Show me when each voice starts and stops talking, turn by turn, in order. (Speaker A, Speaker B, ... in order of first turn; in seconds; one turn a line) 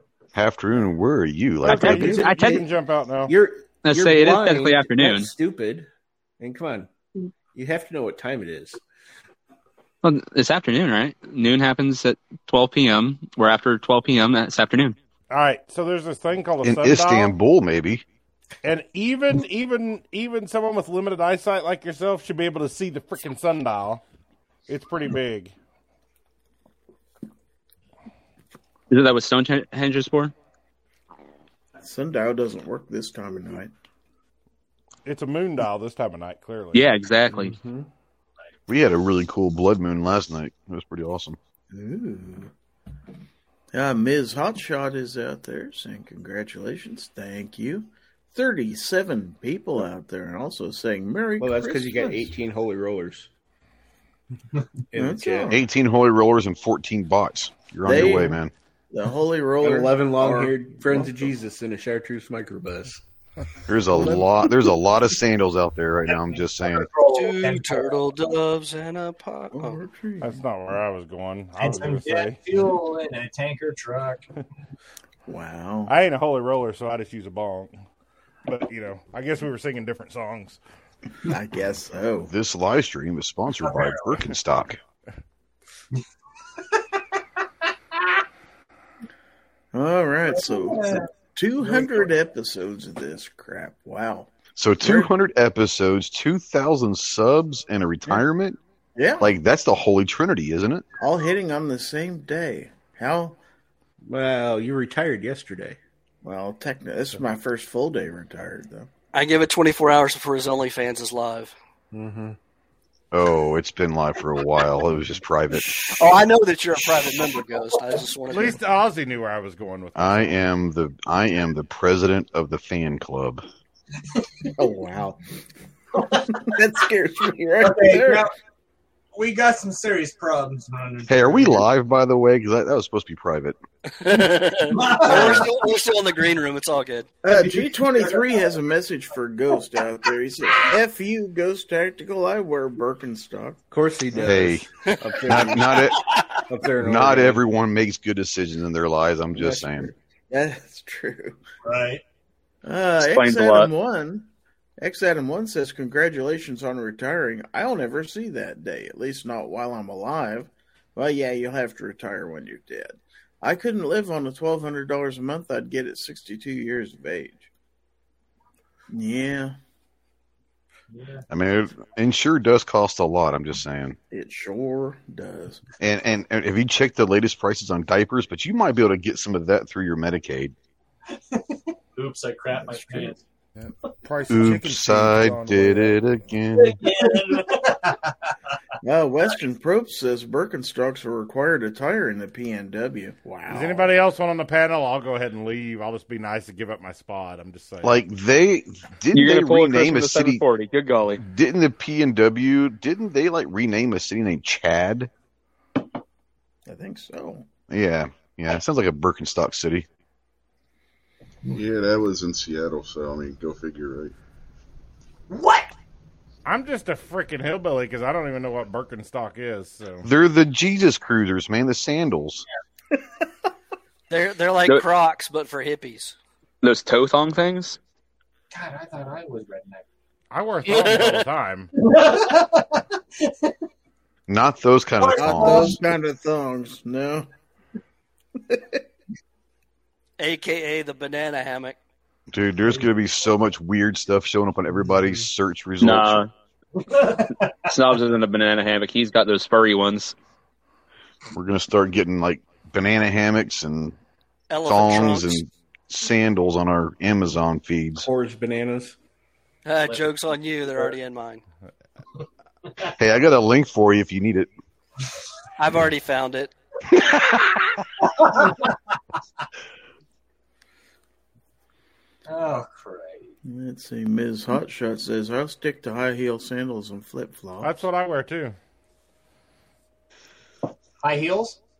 Speaker A: 0.3-2.3
Speaker B: 1.6-3.3
Speaker C: 1.7-2.7
Speaker D: 1.7-2.6
Speaker C: 3.3-5.9
Speaker D: 3.8-5.3
Speaker C: 6.4-6.9
Speaker C: 7.5-8.8
Speaker D: 10.0-14.9
Speaker B: 15.3-17.4
Speaker A: 16.6-18.0
Speaker B: 18.6-24.0
Speaker B: 24.7-25.5
Speaker D: 28.9-30.3
Speaker E: 31.8-33.7
Speaker B: 35.0-36.9
Speaker D: 36.7-37.5
Speaker C: 37.3-37.9
Speaker A: 38.7-41.4
Speaker E: 41.7-42.5
Speaker E: 43.7-52.3
Speaker C: 51.4-53.3
Speaker C: 54.9-55.6
Speaker E: 54.9-55.6
Speaker A: 55.5-58.5
Speaker E: 57.8-61.3
Speaker C: 59.6-63.0
Speaker A: 63.7-66.9
Speaker F: 66.3-68.0
Speaker G: 67.0-69.8
Speaker E: 69.5-70.4
Speaker B: 70.2-72.4
Speaker F: 71.5-74.3
Speaker E: 75.3-75.9
Speaker B: 75.9-77.7
Speaker B: 78.5-80.6
Speaker E: 81.2-82.3
Speaker A: 82.3-84.8
Speaker F: 83.5-84.2
Speaker E: 89.7-95.1
Speaker F: 90.3-91.1
Speaker F: 91.6-92.1
Speaker A: 94.5-98.6
Speaker E: 99.0-99.3
Speaker A: 99.2-100.8
Speaker E: 101.0-103.4
Speaker C: 104.1-105.8
Speaker E: 106.2-108.9
Speaker G: 109.1-111.5
Speaker C: 111.9-112.4
Speaker A: 113.1-115.9
Speaker G: 115.8-118.6
Speaker B: 118.3-120.4
Speaker A: 120.0-123.4
Speaker E: 124.5-125.2
Speaker E: 126.3-128.3
Speaker F: 127.6-128.3
Speaker F: 129.1-131.6
Speaker A: 131.1-133.6
Speaker G: 134.0-137.1
Speaker F: 134.7-135.6
Speaker E: 135.1-135.5
Speaker E: 137.2-143.6
Speaker F: 137.3-138.5
Speaker C: 143.7-145.7
Speaker A: 144.2-144.7
Speaker A: 145.2-146.1
Speaker C: 146.5-147.4
Speaker A: 146.8-149.9
Speaker E: 149.3-149.7
Speaker C: 149.4-149.8
Speaker E: 150.3-151.4
Speaker F: 151.6-152.0
Speaker E: 152.6-154.3
Speaker D: 153.0-153.7
Speaker E: 154.8-167.5
Speaker E: 168.9-169.6
Speaker F: 170.9-171.2
Speaker A: 171.3-174.0
Speaker E: 174.1-175.6
Speaker A: 175.8-180.5
Speaker F: 181.9-183.2
Speaker H: 183.6-186.3
Speaker A: 184.3-186.8
Speaker F: 186.6-188.1
Speaker E: 188.8-193.9
Speaker B: 193.5-197.9
Speaker A: 197.8-200.4
Speaker D: 199.1-201.2
Speaker A: 201.2-205.1
Speaker E: 206.7-207.5
Speaker A: 207.7-209.8
Speaker I: 211.5-214.1
Speaker F: 215.3-215.7
Speaker B: 216.4-220.1
Speaker A: 220.0-222.4
Speaker G: 224.1-226.2
Speaker D: 226.6-227.8
Speaker F: 228.5-229.8
Speaker B: 230.3-231.7
Speaker G: 230.7-231.2
Speaker F: 231.8-232.8
Speaker A: 234.3-235.8
Speaker F: 235.0-235.8
Speaker E: 235.2-237.3
Speaker E: 238.5-238.8
Speaker G: 240.2-241.8
Speaker A: 242.3-246.3
Speaker D: 245.8-246.3
Speaker F: 246.8-247.7
Speaker D: 247.7-250.2
Speaker A: 251.3-254.0
Speaker G: 254.5-255.4
Speaker A: 254.6-258.1
Speaker C: 258.0-259.0
Speaker G: 259.6-261.4
Speaker F: 259.8-260.9
Speaker A: 262.9-264.5
Speaker G: 265.6-266.5
Speaker F: 268.0-268.7
Speaker F: 272.3-273.3
Speaker E: 273.4-277.9
Speaker B: 277.6-278.6
Speaker F: 281.0-281.6